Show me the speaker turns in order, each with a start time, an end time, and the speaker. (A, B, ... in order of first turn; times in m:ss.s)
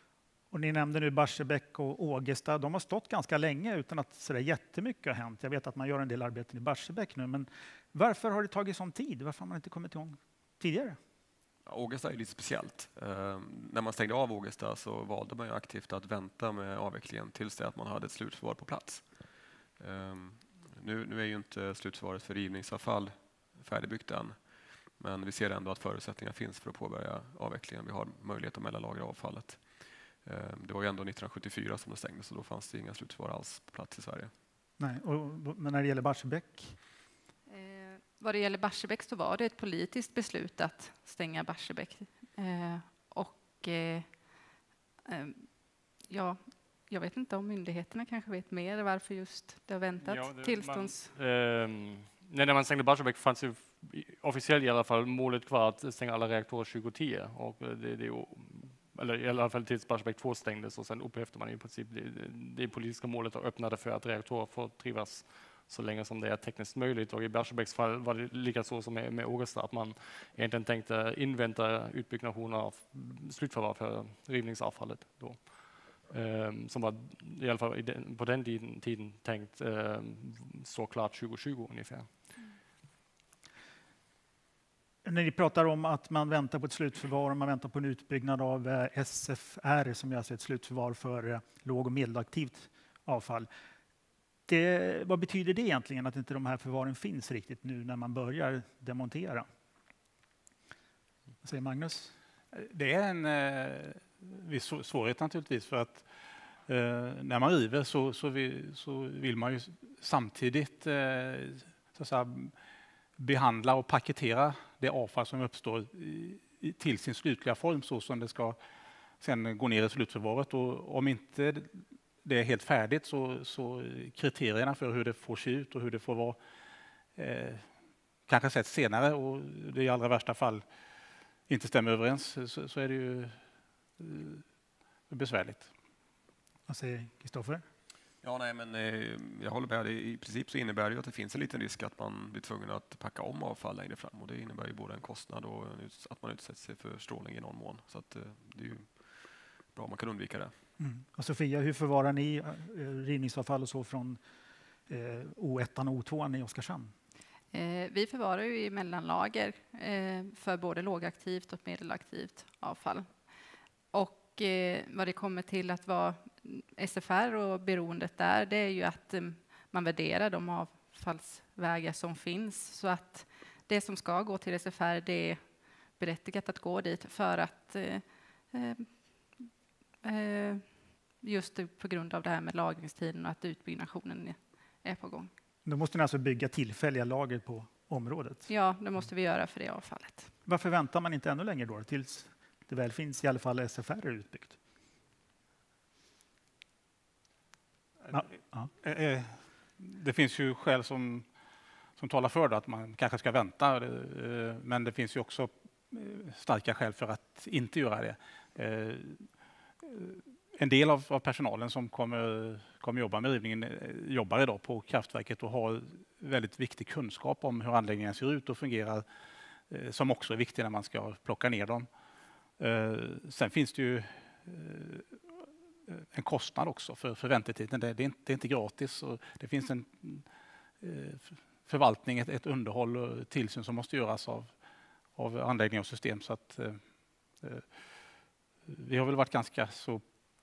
0:00.5-0:11.0 A
0:11.6-0:19.2 B
0:19.8-0:24.4 B
0:25.0-0:29.6 B
0:30.2-0:34.3 B
0:34.8-0:36.8 A
0:37.5-0:44.2 C
0:45.1-0:45.5 C
0:46.0-0:51.1 C
0:50.0-1:22.3 D
1:25.0-1:33.5 A
1:34.5-1:39.5 A
1:41.4-1:42.1 A
1:42.5-1:52.6 E
1:53.2-1:58.6 E
1:59.2-2:06.4 E
2:07.1-2:07.7 E
2:08.3-2:10.6 E
2:11.5-2:13.4 E
2:14.0-2:14.4 E
2:15.1-2:15.7 E
2:16.7-2:17.6 A
2:18.2-2:29.1 B
2:29.7-2:30.5 B
2:30.8-2:34.2 A
2:34.9-2:36.9 A
2:37.5-2:43.2 C
2:43.9-2:59.4 C
3:00.0-3:05.3 C
3:05.6-3:08.5 A
3:08.5-3:10.3 C
3:10.5-3:14.6 A
3:18.1-3:21.3 E
3:18.1-3:18.7 A
3:22.0-3:39.1 E
3:39.7-3:41.9 E
3:42.6-3:45.2 E
3:45.9-3:50.3 E
3:50.8-3:54.5 E
3:55.2-3:56.8 E
3:57.4-3:57.8 E
3:58.7-4:00.0 E